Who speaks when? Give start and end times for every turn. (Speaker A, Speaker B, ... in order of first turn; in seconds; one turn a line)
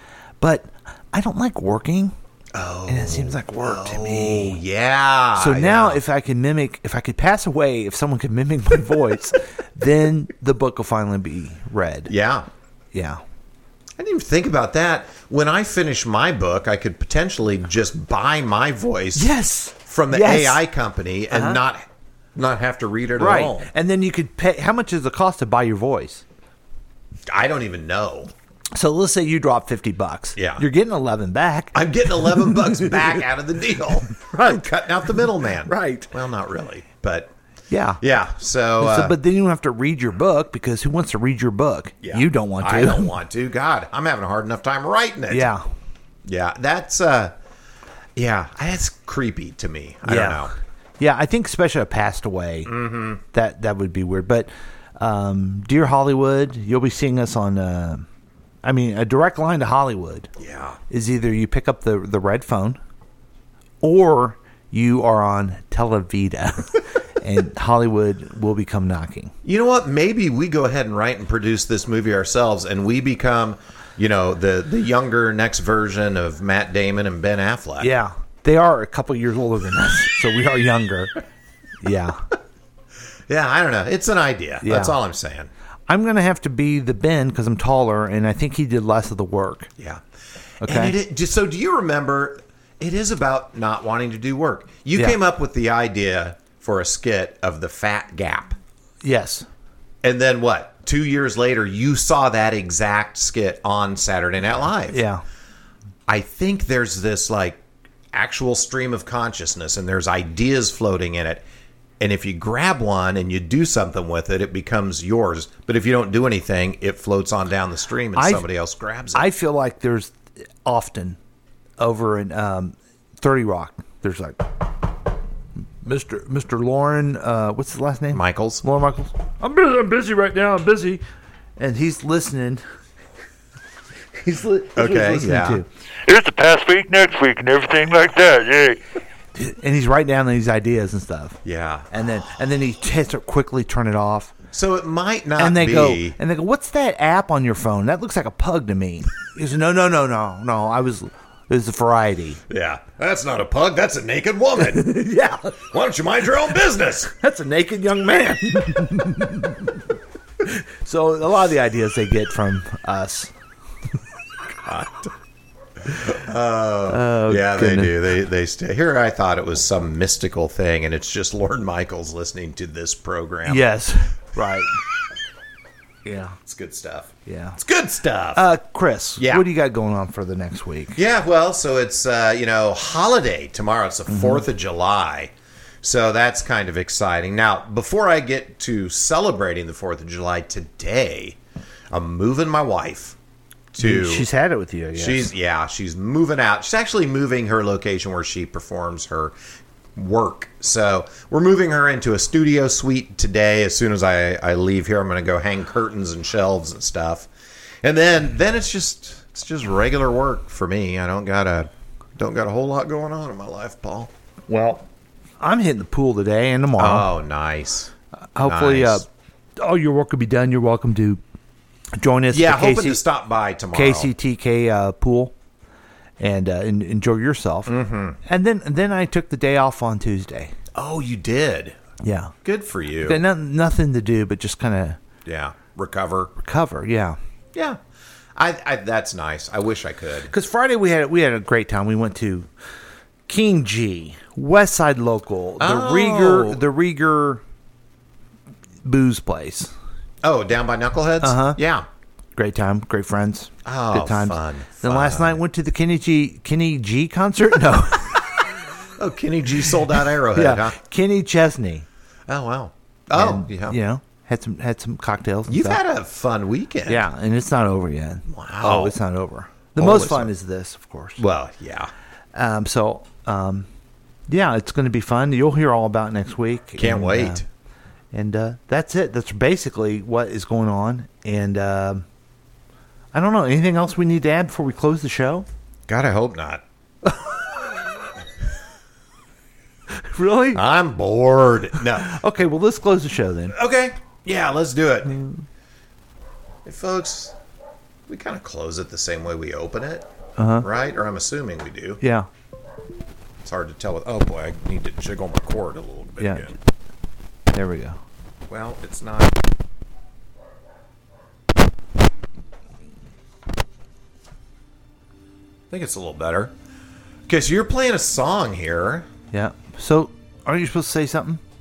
Speaker A: 0.4-2.1
Speaker B: 2.5-6.0
Speaker A: 2.9-4.6
Speaker A: 5.3-12.1
Speaker B: 12.1-12.5
Speaker A: 12.9-13.2
Speaker B: 14.0-23.7
Speaker A: 19.1-20.6
Speaker A: 21.3-21.6
Speaker A: 23.2-26.2
Speaker B: 27.3-28.3
Speaker A: 28.7-31.8
Speaker B: 30.4-30.6
Speaker B: 31.7-37.3
Speaker A: 34.3-34.6
Speaker A: 35.7-36.1
Speaker A: 37.7-38.0
Speaker B: 38.0-39.2
Speaker A: 38.8-43.1
Speaker B: 42.0-45.5
Speaker A: 45.3-45.6
Speaker B: 46.2-47.3
Speaker B: 48.1-50.5
Speaker A: 50.0-58.0
Speaker B: 52.6-53.2
Speaker A: 58.6-60.3
Speaker B: 60.4-60.8
Speaker A: 60.9-62.8
Speaker A: 63.8-69.3
Speaker B: 69.4-77.9
Speaker A: 77.8-81.2
Speaker A: 81.8-82.2
Speaker B: 83.3-85.5
Speaker A: 84.6-85.0
Speaker A: 85.9-89.7
Speaker B: 89.8-90.0
Speaker A: 90.6-90.9
Speaker B: 90.6-98.5
Speaker A: 99.0-99.5
Speaker B: 100.0-105.0
Speaker A: 104.9-105.2
Speaker B: 106.1-111.4
Speaker B: 112.0-119.3
Speaker A: 118.2-118.4
Speaker A: 119.1-120.1
Speaker A: 120.6-121.2
Speaker A: 121.8-124.6
Speaker A: 125.8-131.0
Speaker B: 128.1-128.6
Speaker A: 131.6-132.6
Speaker A: 134.2-135.7
Speaker B: 134.7-135.6
Speaker C: 136.1-138.8
Speaker A: 139.3-141.4
Speaker B: 141.4-141.9
Speaker A: 141.9-144.3
Speaker B: 144.5-146.2
Speaker A: 145.4-152.4
Speaker B: 152.5-155.0
Speaker A: 154.7-155.6
Speaker B: 155.6-157.1
Speaker A: 157.1-159.7
Speaker A: 160.4-163.3
Speaker B: 164.6-165.1
Speaker B: 165.8-173.7
Speaker A: 166.9-167.9
Speaker A: 173.4-174.8
Speaker A: 176.0-176.4
Speaker B: 176.4-178.5
Speaker A: 177.3-177.6
Speaker A: 178.3-181.0
Speaker B: 179.2-179.5
Speaker B: 180.9-191.4
Speaker A: 184.1-184.4
Speaker B: 191.9-193.2
Speaker B: 193.7-194.3
Speaker A: 193.8-195.3
Speaker B: 194.9-199.3
Speaker B: 199.9-207.3
Speaker B: 207.8-214.8
Speaker A: 215.4-217.1
Speaker B: 216.8-219.0
Speaker A: 218.3-219.1
Speaker A: 219.6-221.2
Speaker A: 221.9-223.0
Speaker B: 222.3-224.1
Speaker A: 223.7-225.3
Speaker A: 226.2-230.5
Speaker B: 227.7-228.2
Speaker B: 230.7-231.8
Speaker A: 232.0-232.3
Speaker B: 232.4-233.2
Speaker A: 233.1-235.0
Speaker B: 235.2-236.3
Speaker A: 236.4-237.2
Speaker B: 237.5-237.8
Speaker B: 238.3-240.3
Speaker A: 240.3-242.5
Speaker A: 243.3-247.4
Speaker B: 245.6-246.6
Speaker A: 248.8-249.7
Speaker B: 250.2-251.8
Speaker A: 251.2-251.6
Speaker A: 252.3-258.2
Speaker B: 253.6-255.4
Speaker B: 259.0-260.8
Speaker A: 260.3-261.9
Speaker B: 262.3-263.8
Speaker A: 263.1-265.8
Speaker B: 265.5-267.1
Speaker A: 266.9-271.2
Speaker B: 268.3-268.9
Speaker B: 269.7-270.3
Speaker B: 271.2-271.9
Speaker A: 272.3-273.6
Speaker A: 274.3-277.4
Speaker B: 276.8-277.4
Speaker A: 278.1-282.0
Speaker A: 283.1-285.4
Speaker B: 285.9-286.6
Speaker A: 290.0-290.6
Speaker B: 290.5-292.2
Speaker A: 292.0-293.5
Speaker B: 293.5-295.2
Speaker B: 296.6-297.3
Speaker B: 298.1-300.1
Speaker A: 300.4-300.6
Speaker B: 300.6-302.0
Speaker A: 302.0-302.3
Speaker B: 303.4-306.6
Speaker A: 306.2-306.5
Speaker A: 307.5-308.0
Speaker B: 308.5-309.4
Speaker B: 315.7-316.5
Speaker B: 317.3-319.1
Speaker A: 319.3-321.4